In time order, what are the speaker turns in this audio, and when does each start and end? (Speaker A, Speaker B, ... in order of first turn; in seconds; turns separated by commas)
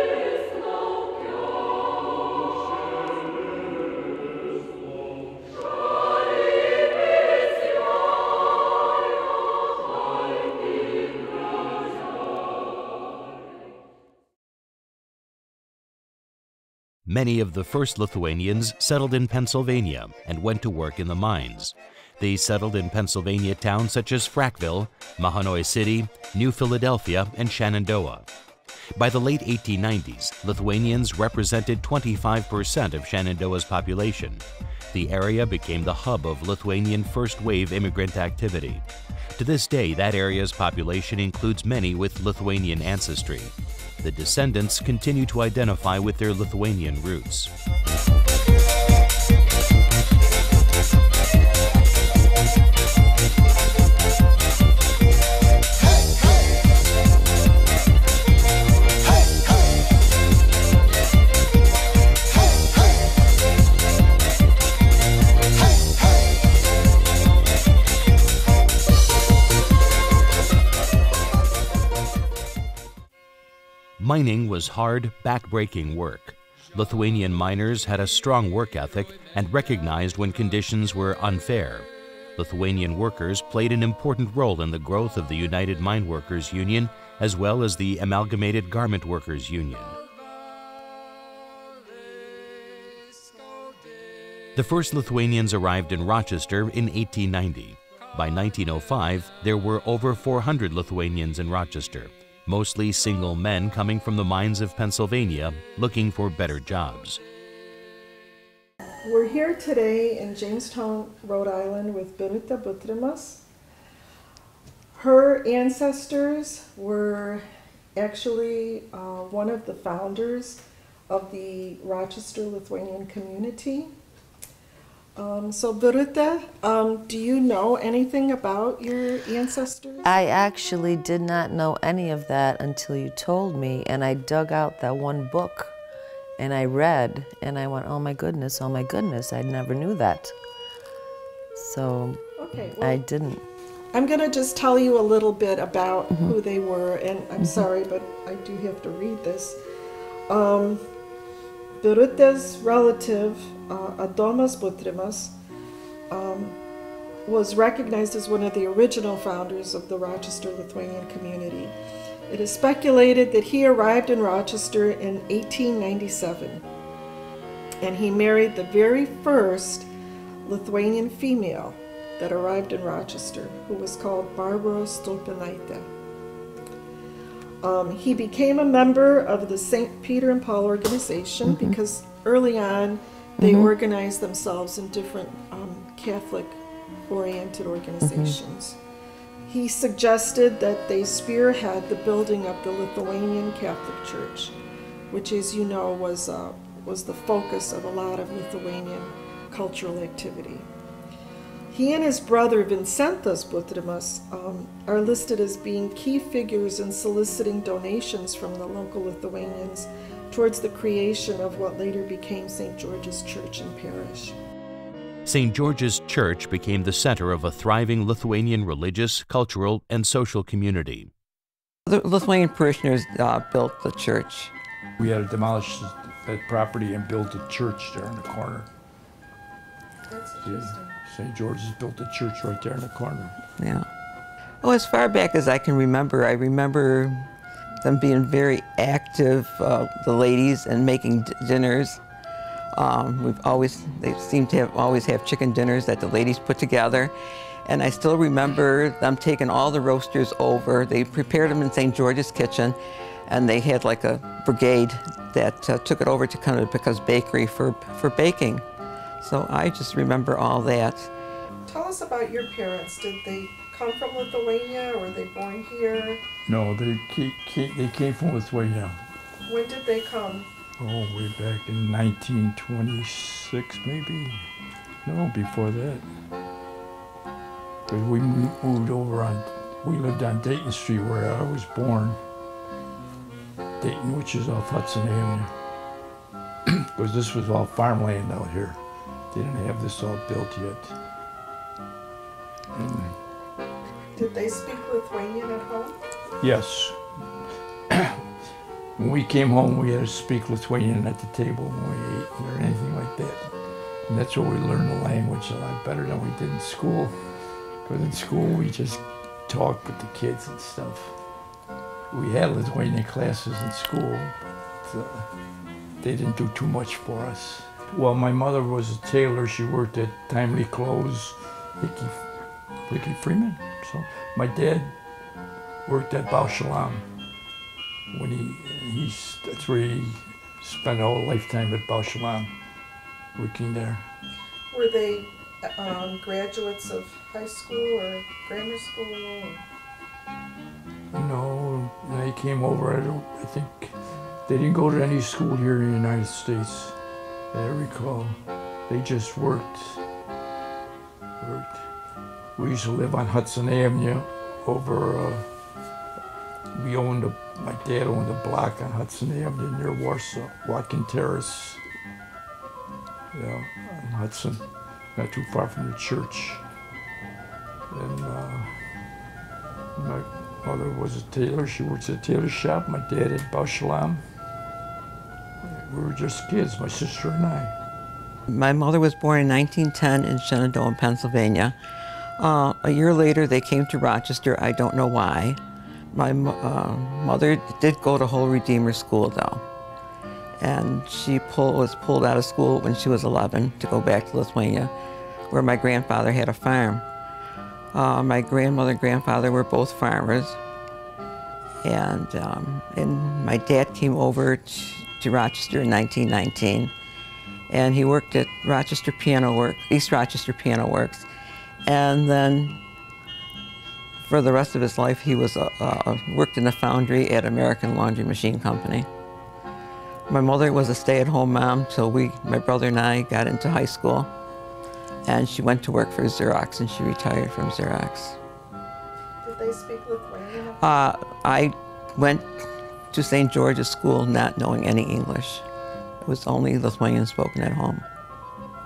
Speaker A: 17.1-28.3, Speaker A: 29.0-38.9, Speaker A: 39.4-47.5, Speaker A: 74.0-90.0, Speaker A: 94.5-107.2, Speaker B: 109.0-113.4, Speaker B: 114.9-123.9, Speaker B: 125.2-130.1, Speaker C: 130.0-135.7, Speaker C: 136.4-140.3, Speaker C: 141.6-142.2, Speaker B: 142.4-143.0, Speaker C: 142.8-143.4, Speaker B: 143.9-149.6, Speaker C: 146.1-146.3, Speaker C: 147.4-147.6, Speaker B: 150.3-150.8, Speaker B: 151.8-155.3, Speaker B: 156.1-156.6, Speaker B: 157.2-161.7, Speaker B: 162.3-166.6, Speaker B: 167.8-169.9, Speaker B: 170.4-175.9, Speaker B: 177.6-188.8, Speaker C: 181.4-181.8, Speaker C: 183.4-183.7, Speaker C: 188.0-188.3, Speaker B: 189.4-194.6, Speaker B: 195.1-200.7, Speaker B: 201.7-214.4, Speaker A: 215.2-221.1, Speaker D: 221.9-224.5, Speaker E: 225.0-228.7, Speaker B: 230.1-231.0, Speaker E: 230.4-233.4, Speaker D: 233.6-233.9, Speaker D: 234.6-237.3, Speaker D: 237.8-242.0, Speaker D: 242.7-247.1, Speaker D: 247.7-258.6, Speaker D: 259.2-261.1, Speaker B: 261.6-266.2, Speaker E: 266.4-269.0, Speaker B: 269.4-270.5, Speaker E: 270.8-274.5, Speaker E: 275.0-276.1, Speaker E: 277.9-282.2, Speaker E: 283.8-285.5, Speaker E: 286.7-290.9, Speaker E: 292.7-293.2, Speaker B: 294.1-296.0, Speaker E: 296.4-297.1, Speaker E: 297.9-298.2, Speaker E: 299.0-311.2, Speaker E: 312.1-315.4, Speaker E: 316.0-324.9, Speaker E: 325.8-327.1, Speaker E: 328.1-332.5, Speaker E: 333.3-334.1, Speaker B: 334.7-339.6, Speaker E: 341.1-346.9, Speaker E: 347.5-350.0, Speaker E: 351.4-351.9, Speaker E: 352.6-355.5, Speaker E: 356.7-361.8, Speaker E: 363.3-366.6, Speaker E: 367.9-369.0, Speaker E: 369.9-374.2, Speaker E: 375.6-377.7, Speaker D: 378.5-381.8, Speaker D: 382.4-385.6, Speaker D: 386.1-389.6, Speaker D: 390.6-394.9, Speaker D: 395.5-397.0, Speaker D: 397.9-400.6, Speaker D: 401.8-406.9, Speaker D: 407.7-411.2, Speaker D: 411.9-412.8, Speaker D: 414.2-419.1, Speaker D: 420.3-424.3, Speaker D: 425.2-428.4, Speaker B: 429.4-430.8, Speaker D: 430.8-435.6, Speaker D: 436.2-438.1